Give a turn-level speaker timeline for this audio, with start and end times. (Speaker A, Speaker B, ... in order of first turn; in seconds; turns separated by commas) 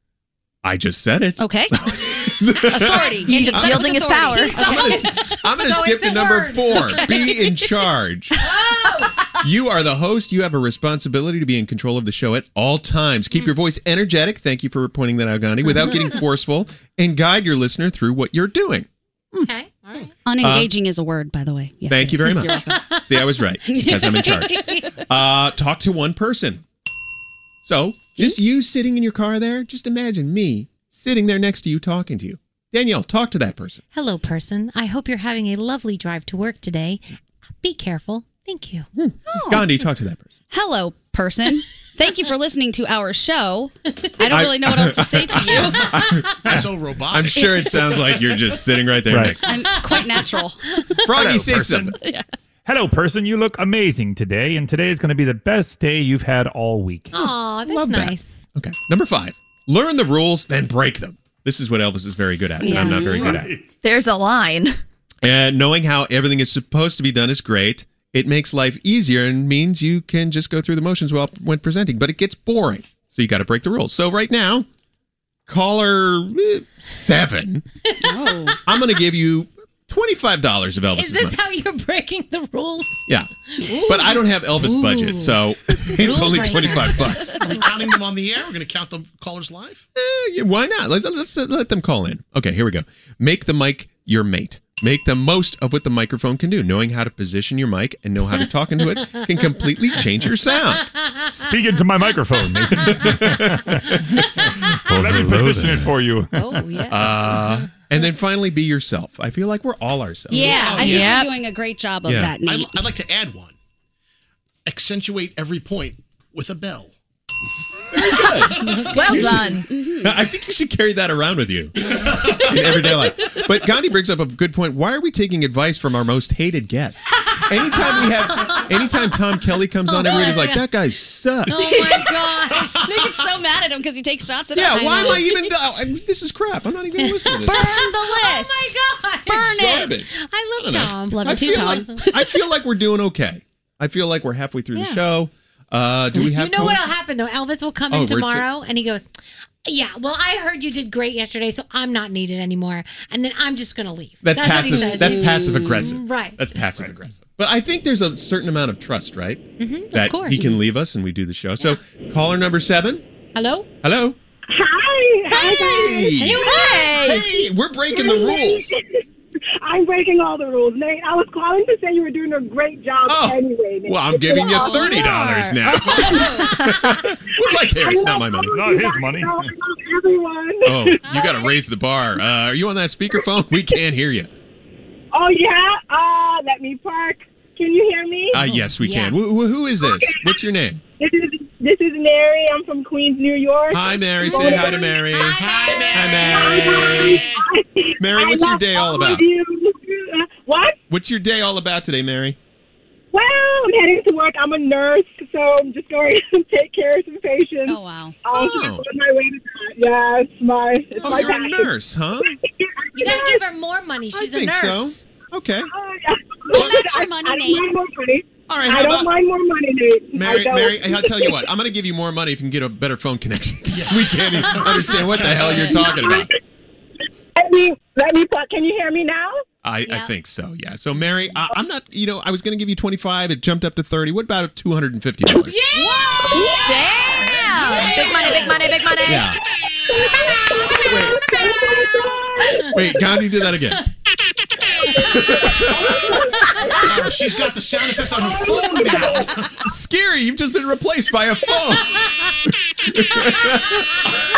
Speaker A: 0.6-3.2, Speaker B: 1.4-1.8, Speaker B: 2.6-5.2, Speaker C: 2.6-7.6, Speaker D: 3.2-4.7, Speaker A: 4.6-8.4, Speaker C: 8.4-9.2, Speaker A: 9.4-19.5, Speaker C: 19.4-20.1, Speaker B: 20.3-22.8, Speaker A: 20.4-20.7, Speaker A: 21.9-26.6, Speaker C: 22.5-23.1, Speaker C: 23.7-25.0, Speaker B: 23.7-24.3, Speaker A: 27.6-33.8, Speaker C: 33.9-37.0, Speaker C: 37.6-38.9, Speaker A: 39.0-40.3, Speaker B: 39.3-39.7, Speaker B: 40.5-45.9, Speaker A: 44.3-49.5, Speaker E: 46.4-47.6, Speaker F: 49.1-49.4, Speaker B: 49.4-50.6, Speaker C: 49.7-50.2, Speaker A: 51.0-52.0, Speaker F: 51.2-51.9, Speaker F: 52.6-57.1, Speaker C: 57.1-58.4, Speaker A: 57.1-63.5, Speaker C: 62.6-63.0, Speaker B: 62.6-63.3, Speaker F: 63.2-63.7, Speaker D: 63.8-64.8, Speaker A: 65.2-74.7, Speaker A: 75.5-77.6, Speaker B: 78.0-78.6, Speaker C: 78.0-78.5, Speaker A: 78.7-81.4, Speaker C: 81.0-85.3, Speaker A: 83.8-87.5, Speaker C: 85.9-87.6, Speaker E: 87.4-89.9, Speaker A: 90.0-100.9, Speaker F: 101.3-106.7, Speaker A: 103.1-103.6, Speaker C: 104.1-105.0, Speaker A: 104.9-105.9, Speaker C: 106.3-107.7, Speaker A: 106.9-111.1, Speaker B: 110.3-112.8, Speaker C: 110.4-110.8, Speaker D: 110.8-111.3, Speaker A: 112.1-112.3, Speaker E: 112.4-113.5, Speaker E: 114.7-116.9, Speaker A: 117.9-131.8, Speaker C: 118.6-119.6, Speaker D: 118.9-119.6, Speaker B: 119.7-120.2, Speaker C: 128.3-128.6, Speaker C: 129.9-130.6, Speaker C: 131.5-132.9, Speaker B: 131.8-132.1, Speaker B: 132.8-135.5, Speaker A: 134.6-137.8, Speaker C: 134.7-135.2, Speaker C: 137.0-142.0, Speaker B: 137.5-138.7, Speaker A: 139.3-146.8, Speaker B: 139.4-139.9, Speaker B: 141.1-142.3, Speaker C: 144.7-145.0, Speaker C: 146.2-149.1, Speaker A: 147.9-148.4, Speaker C: 149.7-156.4, Speaker A: 154.2-163.0, Speaker B: 154.5-155.9, Speaker C: 159.6-160.6, Speaker C: 163.3-163.7, Speaker A: 163.8-164.2, Speaker G: 164.5-167.1, Speaker A: 165.3-168.8, Speaker C: 166.2-167.0, Speaker D: 166.7-167.1, Speaker G: 167.9-169.0, Speaker G: 169.6-175.0, Speaker A: 173.1-178.6, Speaker B: 174.5-176.7, Speaker G: 177.4-181.0, Speaker F: 178.5-179.5, Speaker A: 180.7-184.3, Speaker C: 181.1-181.3, Speaker G: 185.1-188.4, Speaker A: 188.3-190.8, Speaker C: 188.8-189.2, Speaker G: 189.8-190.4, Speaker G: 191.0-194.9, Speaker A: 193.7-196.9, Speaker C: 194.3-196.1, Speaker G: 195.4-200.8, Speaker A: 198.0-199.3, Speaker A: 200.9-202.4, Speaker G: 203.1-211.7, Speaker B: 207.6-208.2, Speaker A: 208.3-208.9, Speaker A: 211.0-212.3, Speaker G: 212.5-213.4, Speaker C: 212.9-215.0, Speaker A: 214.1-215.7, Speaker G: 215.7-221.4, Speaker B: 216.5-217.7, Speaker A: 216.6-216.8, Speaker A: 218.5-219.2, Speaker A: 220.2-226.3, Speaker E: 223.7-225.7, Speaker G: 225.8-226.3, Speaker G: 227.4-229.4, Speaker A: 229.6-235.6, Speaker C: 235.4-236.6, Speaker B: 236.3-239.2, Speaker G: 236.4-236.8, Speaker D: 236.8-239.3, Speaker C: 237.3-238.6, Speaker A: 239.1-239.4, Speaker G: 239.9-242.7, Speaker C: 240.7-241.7, Speaker A: 240.9-241.2, Speaker A: 242.7-243.8, Speaker A: 244.9-245.9, Speaker G: 245.7-247.4, Speaker E: 246.8-249.6, Speaker G: 248.1-249.2, Speaker A: 249.6-252.1, Speaker A: 252.8-254.1